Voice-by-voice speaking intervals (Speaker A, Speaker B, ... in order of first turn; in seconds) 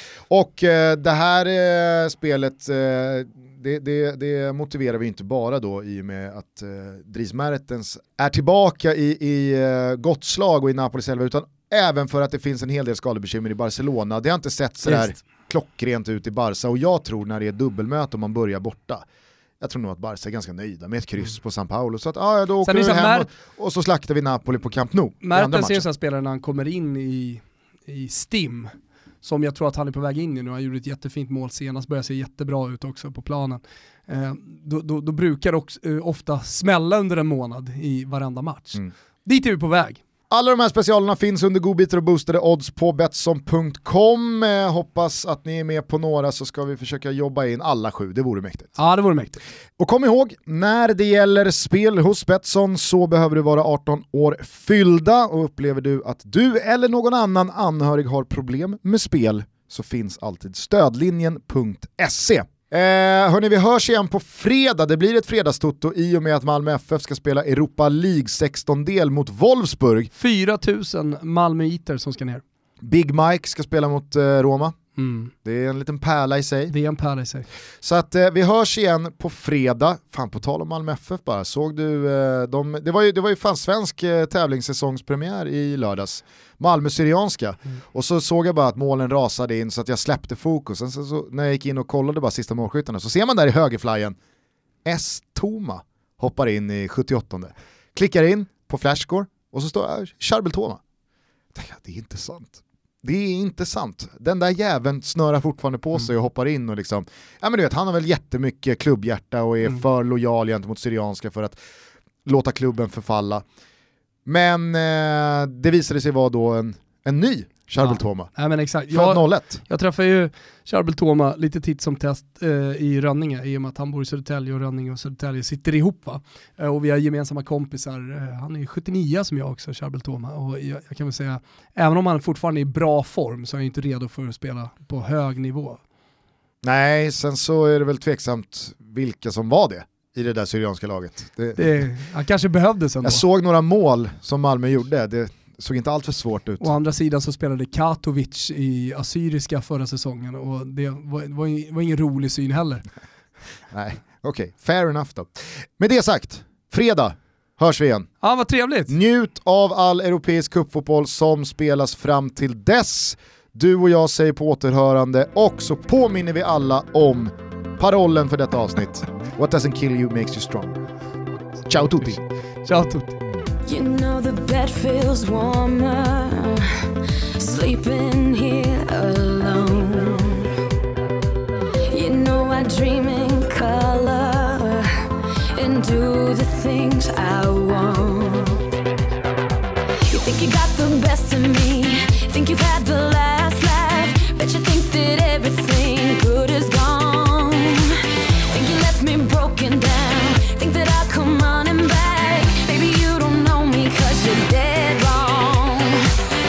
Speaker A: 0.3-19.0, 19.6-25.8, 40.3-48.7, 49.8-70.1, 72.8-74.8, 75.4-76.7, 77.8-94.2, 94.8-100.8, 101.5-111.6, 112.2-113.4, 114.2-118.3, 118.9-119.6, 136.6-141.7, 143.0-146.7, 153.7-158.1, 158.9-170.8, 171.7-172.2
Speaker B: 14.8-15.1, 22.6-23.3, 25.2-40.0, 48.8-49.4, 70.1-72.4, 75.0-75.3, 76.7-77.5, 117.8-135.8, 141.6-143.2, 146.6-152.8, 158.2-158.9, 172.7-173.2
Speaker C: 173.7-180.5, 181.9-188.6, 190.0-206.2